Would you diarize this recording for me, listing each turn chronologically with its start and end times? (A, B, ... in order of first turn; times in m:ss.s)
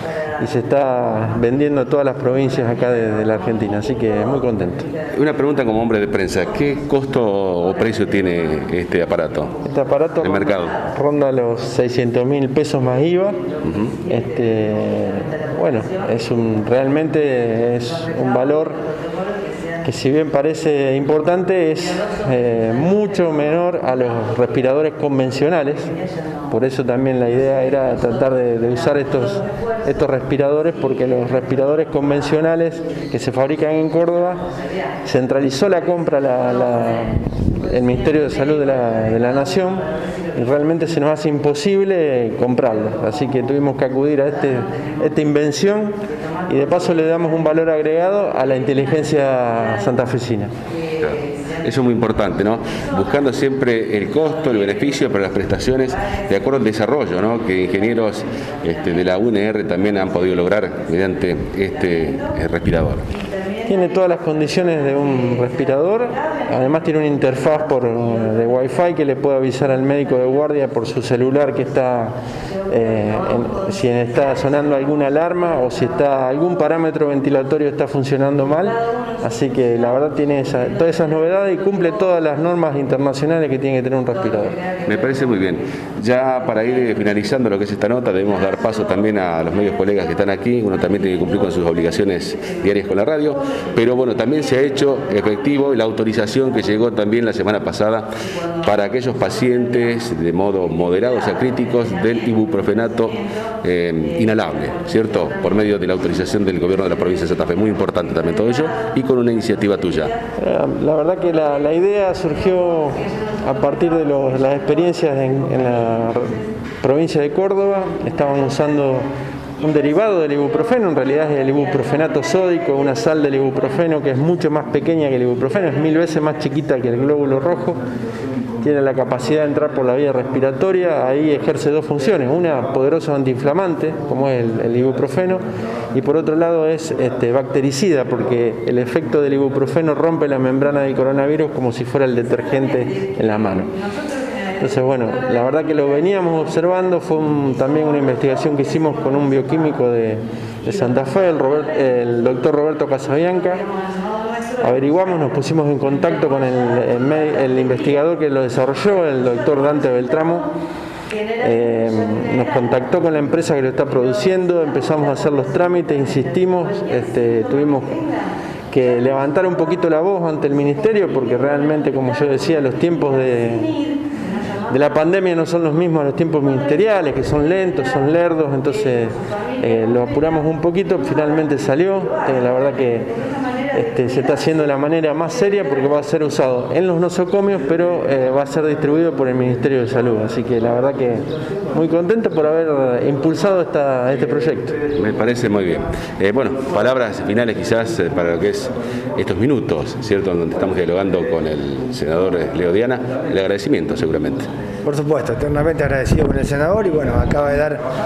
0:00.4-0:04.9 A
0:05.1-0:09.6 B
0:09.6-0:13.4 A
0:10.2-0:10.7 B
0:13.6-0:13.9 B
0:14.0-0:18.8 A
0:19.8-0:25.9 A
0:26.5-0:34.4 A
0:35.0-0:39.8 A
0:40.3-0:45.9 A
0:46.5-0:50.5 A
0:51.0-1:03.0 B
1:03.6-1:12.1 A
1:12.7-1:24.6 A
1:24.8-1:38.1 B
1:38.6-1:50.1 B
1:50.4-1:59.0 A
1:59.6-2:07.8 A
2:08.6-2:15.4 A
2:15.9-2:23.7 A
2:24.6-2:33.6 A
2:34.6-2:40.5 A
2:41.4-2:48.0 A
2:48.7-2:53.8 A
2:54.7-3:03.1 A
3:03.7-3:14.7 A
3:15.0-3:24.5 B
3:24.8-3:27.8 C